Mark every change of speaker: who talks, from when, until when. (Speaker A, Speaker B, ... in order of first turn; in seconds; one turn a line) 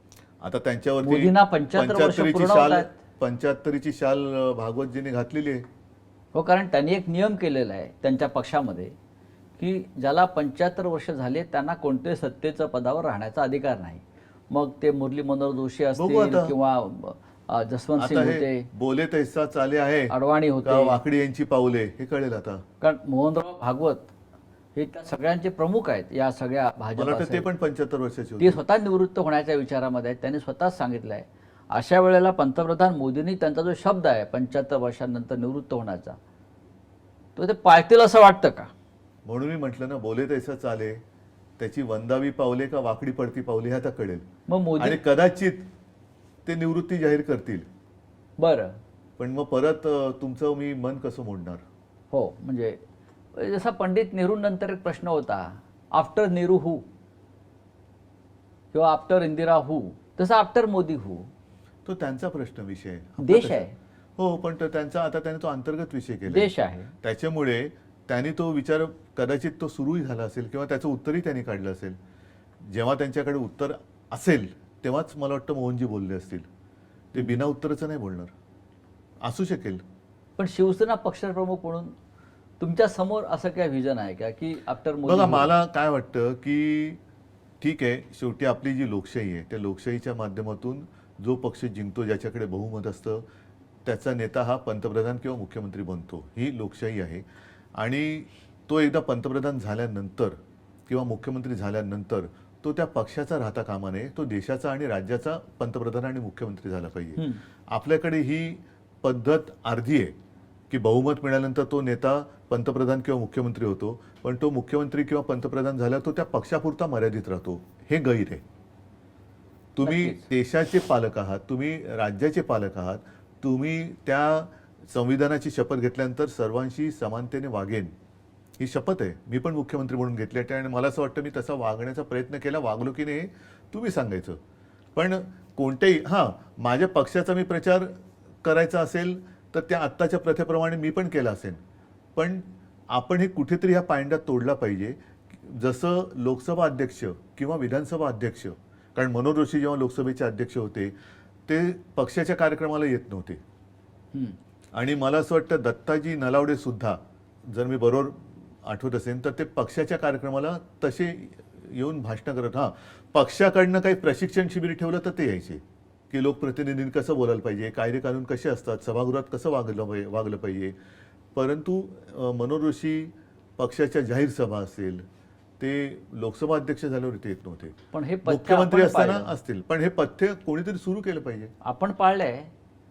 Speaker A: 0.4-5.7
Speaker B: 1.0-3.0
Speaker B: 6.3-8.9
Speaker B: 9.6-18.7
Speaker A: 16.0-16.5
Speaker A: 18.0-20.1
Speaker B: 20.1-21.0
Speaker A: 20.6-22.6
Speaker B: 22.8-24.1
Speaker B: 24.8-27.5
Speaker A: 27.0-28.6
Speaker B: 28.4-36.2
Speaker B: 37.4-38.7
Speaker A: 39.2-41.0
Speaker A: 41.6-44.2
Speaker B: 44.5-45.0
Speaker A: 44.8-45.6
Speaker A: 46.5-47.7
Speaker B: 48.4-48.8
Speaker A: 49.2-51.6
Speaker B: 52.1-52.8
Speaker B: 53.4-56.8
Speaker B: 58.7-61.3
Speaker A: 61.9-63.6
Speaker B: 63.2-63.8
Speaker A: 64.2-66.5
Speaker B: 66.3-66.9
Speaker A: 67.0-72.0
Speaker A: 72.7-76.5
Speaker A: 77.1-78.3
Speaker B: 77.2-77.4
Speaker A: 79.2-79.8
Speaker B: 80.4-81.9
Speaker B: 82.6-85.5
Speaker A: 85.1-87.0
Speaker A: 87.6-93.2
Speaker A: 93.8-97.2
Speaker A: 97.8-100.3
Speaker A: 100.9-110.1
Speaker A: 110.7-118.4
Speaker A: 119.8-127.9
Speaker B: 119.8-120.3
Speaker A: 128.6-134.4
Speaker A: 134.9-141.6
Speaker A: 142.2-150.9
Speaker A: 151.5-153.4
Speaker A: 154.7-170.8
Speaker A: 171.3-175.0
Speaker A: 175.6-181.5
Speaker B: 177.9-179.3
Speaker B: 181.6-182.5